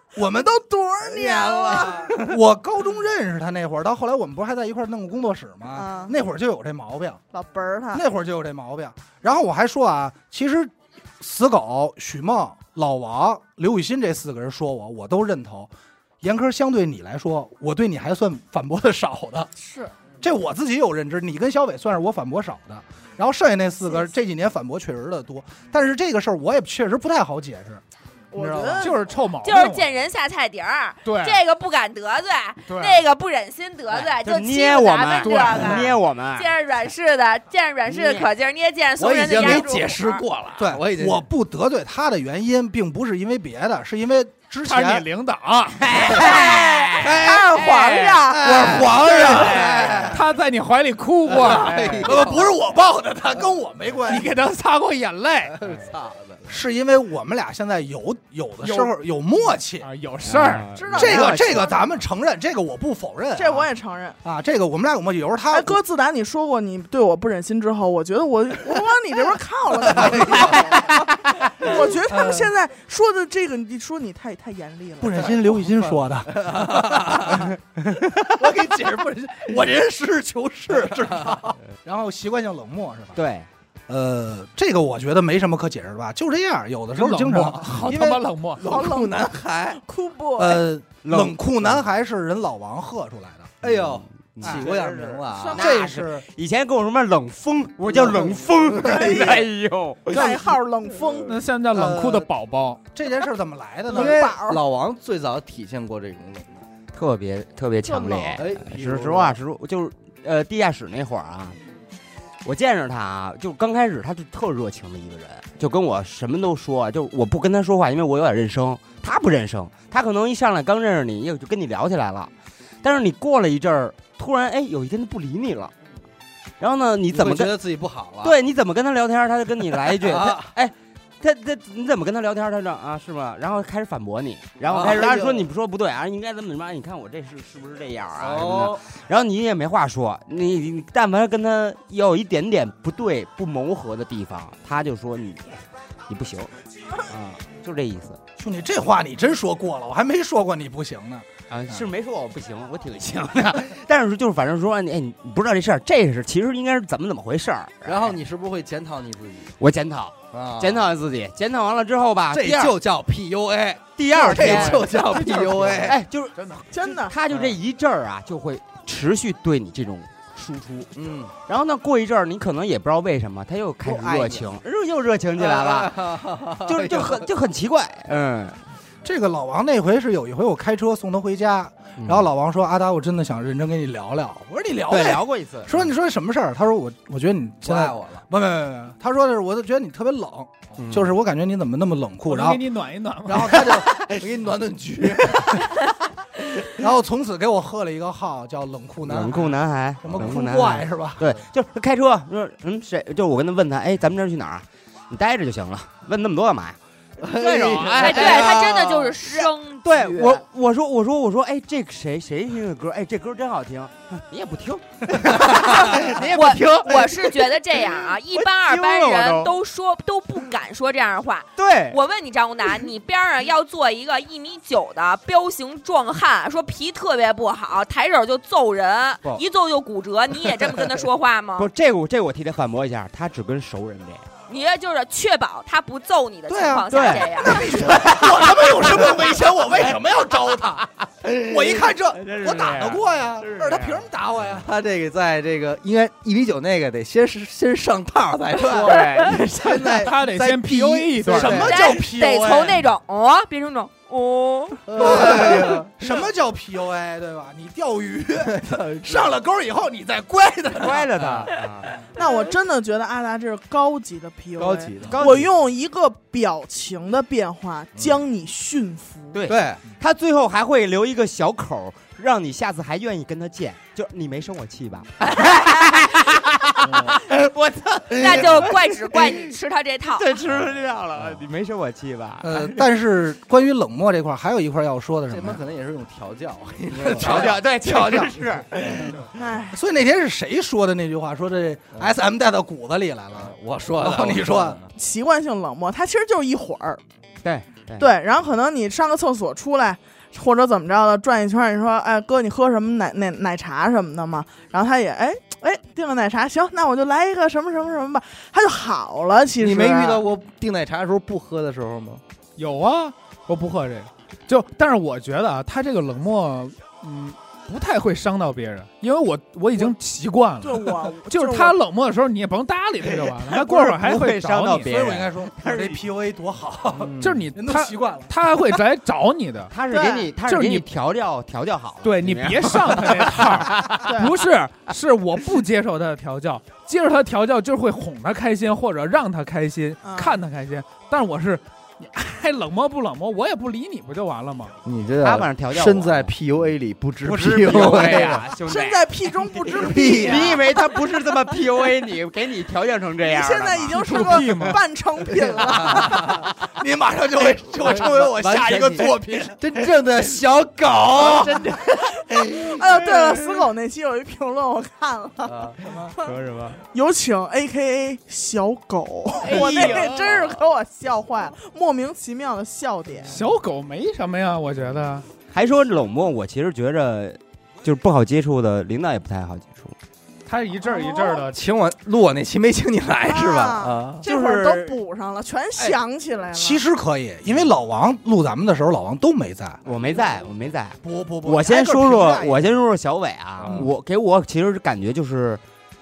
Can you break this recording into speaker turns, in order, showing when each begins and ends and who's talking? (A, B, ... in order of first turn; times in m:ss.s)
0:00.2-0:00.6 A
0:00.5-0:02.2 B
0:01.0-0:02.2 C
0:01.8-0:07.2 A
0:05.7-0:06.1 B
0:07.3-0:08.0 B
0:07.9-0:19.5 A
0:19.6-0:19.9 B
0:20.2-0:27.8 A
0:28.3-0:29.1 B
0:28.3-0:28.9 A
0:28.8-0:29.9 D
0:29.4-0:40.2 E
0:31.0-0:31.4 D
0:32.7-0:33.0 D
0:33.9-0:36.5 F
0:35.2-0:36.0 D
0:37.9-0:38.3 F
0:39.0-0:41.2 C
0:39.4-0:39.7 A
0:40.6-0:45.1 A
0:44.6-0:46.7 D
0:45.9-0:49.4 E
0:45.9-0:46.9 F
0:47.0-0:47.4 A
0:47.4-0:48.2 D
0:48.3-0:50.2 A
0:48.4-0:50.2 C
0:49.2-0:52.1 D
0:51.3-0:52.6 C
0:51.4-0:54.3 A
0:54.1-0:55.6 D
0:55.5-0:56.6 C
0:56.5-0:59.9 A
0:58.6-0:58.9 D
0:59.8-1:01.0 D
1:00.2-1:01.1 F
1:00.7-1:02.0 B
1:00.9-1:03.6 A
1:03.4-1:04.2 B
1:04.2-1:05.8 A
1:05.5-1:15.4 B
1:09.9-1:10.6 C
1:15.0-1:17.5 A
1:16.3-1:17.5 C
1:18.4-1:23.2 A
1:20.7-1:21.5 C
1:23.1-1:23.5 F
1:23.9-1:27.8 A
1:26.9-1:28.6 D
1:27.8-1:29.8 C
1:28.6-1:30.7 B
1:30.4-1:33.6 A
1:31.0-1:31.7 F
1:33.6-1:35.6 C
1:33.6-1:40.4 F
1:34.4-1:36.2 A
1:35.3-1:35.8 B
1:37.9-1:39.4 C
1:40.1-1:41.4 B
1:41.2-1:42.8 D
1:41.7-1:42.3 A
1:42.9-1:44.2 A
1:43.9-1:44.6 B
1:43.9-1:46.5 C
1:46.9-1:51.6 F
1:47.8-1:48.4 B
1:48.3-1:49.4 C
1:52.4-2:02.3 F
2:02.8-2:05.7 F
2:06.6-2:07.6 F
2:07.1-2:08.4 C
2:08.2-2:28.2 F
2:09.8-2:10.5 C
2:14.6-2:15.5 C
2:18.2-2:18.8 C
2:28.4-2:31.8 A
2:31.5-2:38.2 F
2:37.8-2:39.5 C
2:39.6-2:42.7 F
2:40.3-2:40.9 C
2:42.3-2:46.0 C
2:44.0-2:50.9 F
2:44.2-2:44.7 B
2:44.4-2:44.8 D
2:46.7-2:47.2 B
2:47.3-2:47.6 C
2:50.9-2:51.3 C
2:51.5-2:56.0 F
2:53.8-2:54.5 C
2:55.4-2:57.3 C
2:56.6-2:58.6 F
2:59.0-3:12.6 A
3:02.0-3:02.3 F
3:04.9-3:05.8 F
3:07.6-3:08.2 C
3:10.8-3:11.1 F
3:12.3-3:13.8 D
3:13.3-3:15.7 C
3:16.6-3:21.3 A
3:19.0-3:28.6 F
3:27.2-3:29.2 C
3:27.4-3:27.8 D
3:28.0-3:30.4 E
3:29.8-3:39.5 F
3:35.3-3:35.9 C
3:35.5-3:51.7 E
3:41.6-3:42.0 F
3:51.6-3:54.3 F
3:54.5-3:57.6 E
3:56.5-4:04.7 A
3:56.9-3:59.2 F
4:01.2-4:03.9 F
4:04.6-4:11.7 C
4:08.7-4:09.4 F
4:09.8-4:11.7 D
4:11.2-4:12.8 A
4:11.6-4:14.9 E
4:14.9-4:15.9 C
4:14.9-4:21.1 A
4:18.4-4:19.3 C
4:20.8-4:21.9 F
4:22.1-4:29.4 B
4:24.6-4:25.4 C
4:25.1-4:25.5 F
4:28.0-4:28.2 C
4:29.3-4:39.5 F
4:29.5-4:29.8 C
4:36.9-4:37.2 C
4:38.2-4:40.3 E
4:40.1-4:42.8 F
4:42.4-4:45.6 A
4:45.3-4:47.6 C
4:47.0-4:48.6 A
4:47.0-4:49.2 F
4:49.3-4:49.8 B
4:49.7-4:54.8 A
4:53.3-4:54.8 C
4:54.9-4:57.0 B
4:57.4-4:58.1 F
4:58.0-5:10.2 B
5:09.6-5:12.2 C
5:12.6-5:25.1 D
5:20.6-5:21.8 B
5:23.4-5:26.0 F
5:24.8-5:28.3 A
5:27.0-5:27.5 C
5:27.2-5:29.7 D
5:29.7-5:33.9 F
5:29.9-5:30.3 B
5:30.4-5:30.9 D
5:32.0-5:44.7 D
5:34.0-5:34.4 B
5:40.0-5:40.4 B
5:44.8-5:48.4 C
5:45.2-5:46.4 F
5:47.2-5:54.8 F
5:48.6-5:50.8 B
5:49.8-5:50.6 C
5:53.2-5:56.4 B
5:53.9-5:54.8 D
5:55.4-5:56.4 C
5:56.7-5:59.6 A
5:57.8-6:01.7 C
6:01.4-6:06.3 B
6:05.4-6:05.8 C
6:06.2-6:06.8 D
6:06.9-6:13.4 B
6:09.4-6:10.5 D
6:09.5-6:10.0 F
6:13.3-6:15.2 D
6:15.5-6:19.9 F
6:20.4-6:21.6 D
6:20.8-6:21.5 B
6:21.5-6:24.2 C
6:23.2-6:26.8 B
6:24.2-6:25.0 F
6:26.5-6:29.9 A
6:29.8-6:35.6 F
6:31.0-6:32.7 A